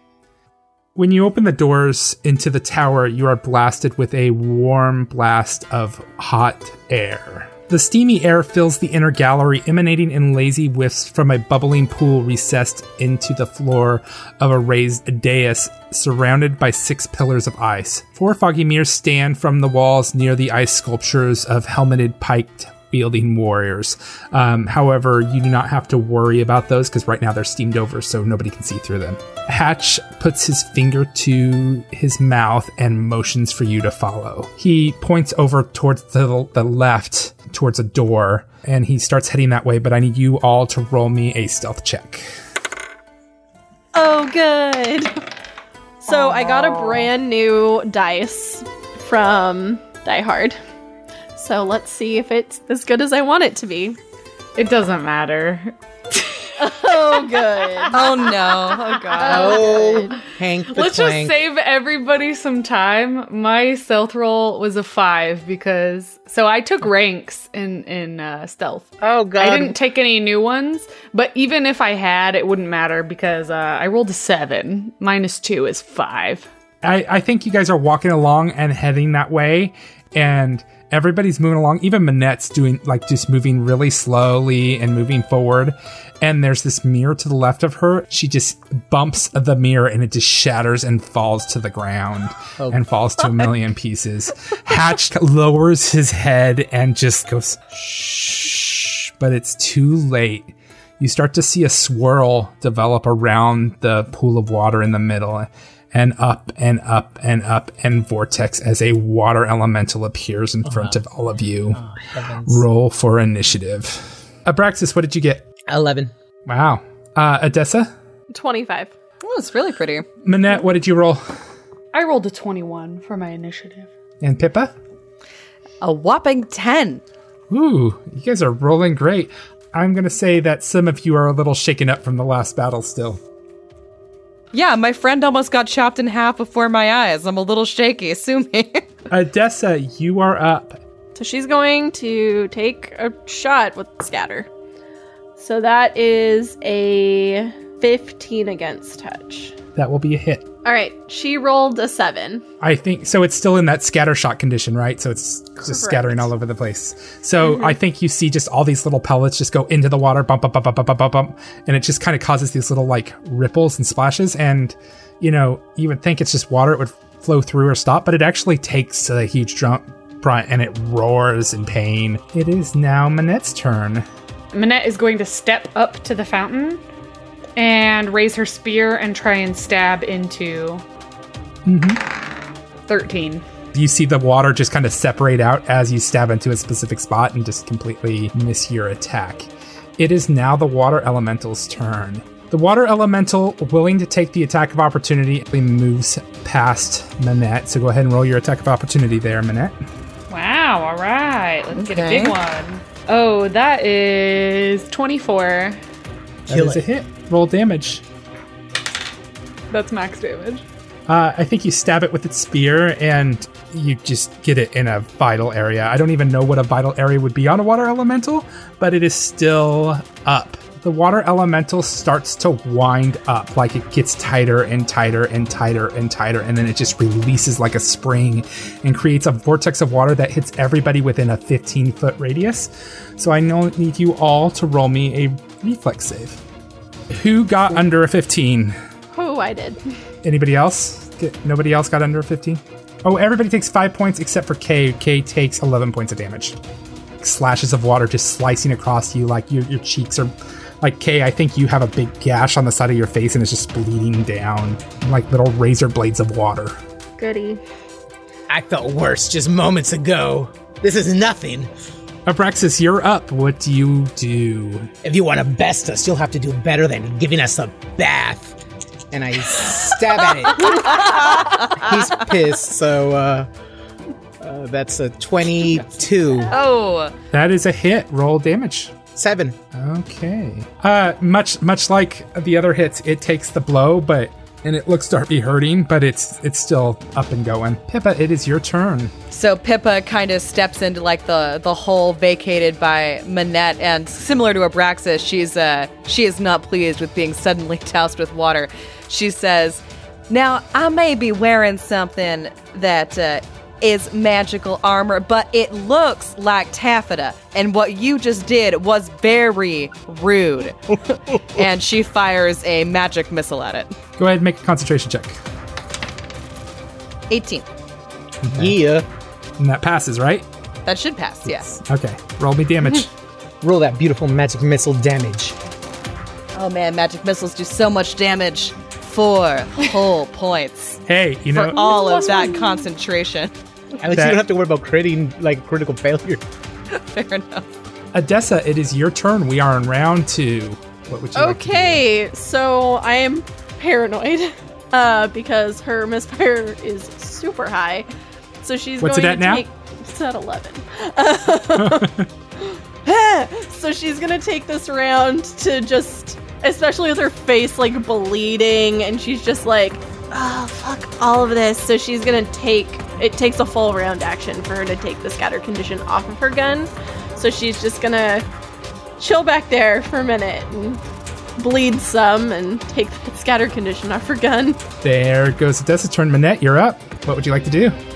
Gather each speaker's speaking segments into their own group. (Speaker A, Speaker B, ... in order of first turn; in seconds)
Speaker A: 0.9-42.2, 76.8-111.8, 112.5-115.4, 116.5-117.9, 120.2-121.3, 124.2-124.7, 127.5-133.2, 139.1-140.8, 149.8-150.5, 152.6-174.1, 181.6-182.1, 183.7-199.8, 206.5-208.0, 211.1-236.4, 237.1-238.8, 240.2-246.6, 247.2-256.8, 262.2-264.9, 277.3-279.0, 279.7-289.1, 314.2-315.4, 318.4-318.8, 319.6-320.5, 321.5-323.1, 331.1-332.0, 334.1-334.4, 338.1-342.0, 349.0-349.6, 351.8-352.3, 375.0-378.0
Speaker B: 43.9-45.1, 46.0-50.6, 51.4-54.0, 56.6-58.0, 59.2-60.1, 118.3-118.9, 141.1-144.5, 145.4-149.5, 150.6-152.4, 155.6-156.3, 239.1-239.8, 257.2-257.6, 331.8-332.7, 341.4-348.1, 348.6-368.4, 369.2-371.0, 371.6-374.8
Speaker C: 46.1-46.9, 54.5-57.9, 59.1-59.8, 60.7-76.5, 121.9-123.9, 174.5-176.8, 177.6-180.8, 182.9-183.4, 200.3-205.8, 209.7-210.6
Speaker D: 57.9-59.8, 119.2-120.0, 125.8-127.0, 134.5-138.8, 201.7-202.4, 270.6-271.9, 276.5-277.1, 289.3-313.9, 317.3-317.6, 320.9-321.7, 326.5-331.0, 331.5-333.5, 336.9-337.7
Speaker E: 59.3-61.4, 69.0-69.8, 110.6-111.0, 111.7-112.6, 115.7-116.1, 206.5-206.9, 258.5-261.7, 265.0-268.6, 269.1-273.5, 274.4-276.5, 279.1-279.6, 311.3-311.6, 318.5-319.1, 323.6-325.6, 334.0-336.4